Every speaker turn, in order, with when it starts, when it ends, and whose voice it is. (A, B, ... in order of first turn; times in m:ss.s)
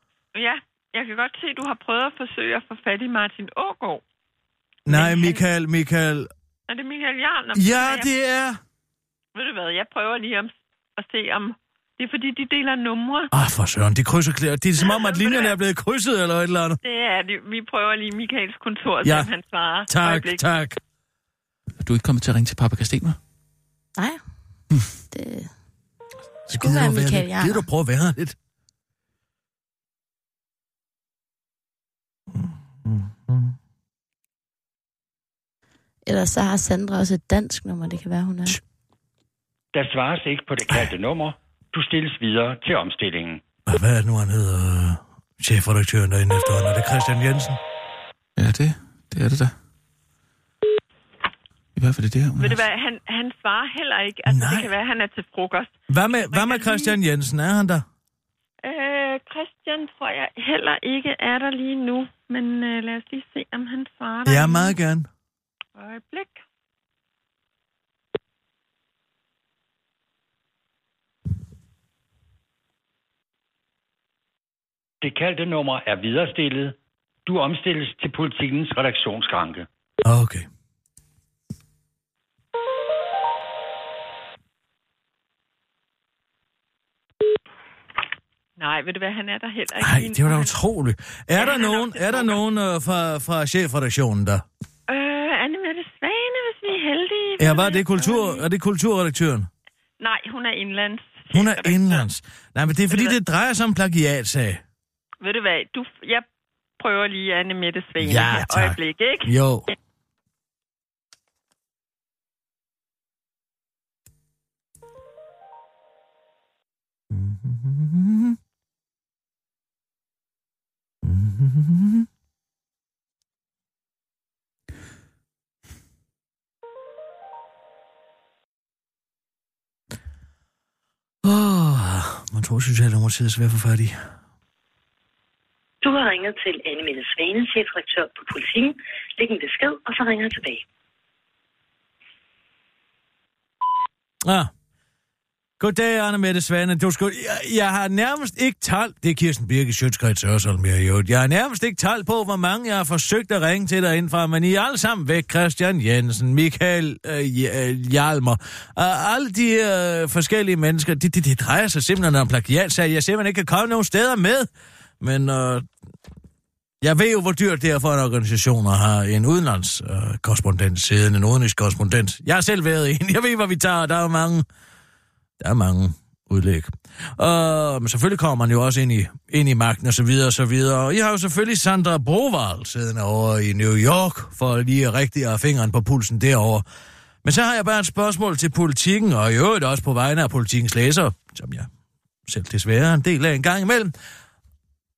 0:00.3-0:04.0 A
0:04.9-0:06.3 B
0:04.9-0:05.4 A
0:06.7-0:08.1 A
0:07.6-0:08.6 B
0:09.3-0:13.3 A
0:13.3-0:16.8 B
0:14.8-0:15.5 A
0:16.8-0:20.4 A
0:19.0-0:19.3 B
0:19.9-0:20.8 B
0:21.8-0:23.2 C
0:25.1-0:25.5 D
0:26.5-0:28.4 B
0:26.5-0:27.7 D
0:32.3-0:33.6 B
0:36.1-0:38.6 D
0:39.7-0:43.4 E
0:43.7-0:47.6 B
0:48.4-0:49.5 C
0:51.8-0:52.6 C
0:52.4-0:57.0 A
0:54.3-0:54.7 B
0:55.9-0:57.8 B
0:58.6-1:04.8 A
1:04.2-1:05.1 B
1:05.8-1:06.4 A
1:15.0-1:19.7 E
1:20.0-1:20.5 B
1:28.6-1:30.6 A
1:29.8-1:34.4 B
1:31.4-1:32.4 A
1:34.9-1:38.4 A
1:37.4-1:39.5 B
1:40.0-1:42.0 A
1:41.3-1:44.6 B
1:42.9-1:43.2 A
1:45.2-1:46.3 A
1:46.8-1:49.4 A
1:48.0-1:49.7 B
1:57.1-1:58.4 B
2:01.0-2:02.1 B
2:11.2-2:14.0 B
2:15.8-2:20.6 F
2:24.2-2:24.5 B
2:25.6-2:44.5 B
2:45.0-2:45.7 B
2:46.8-2:54.4 B
2:55.4-3:06.6 B
3:07.2-3:11.7 B
3:12.3-3:13.9 B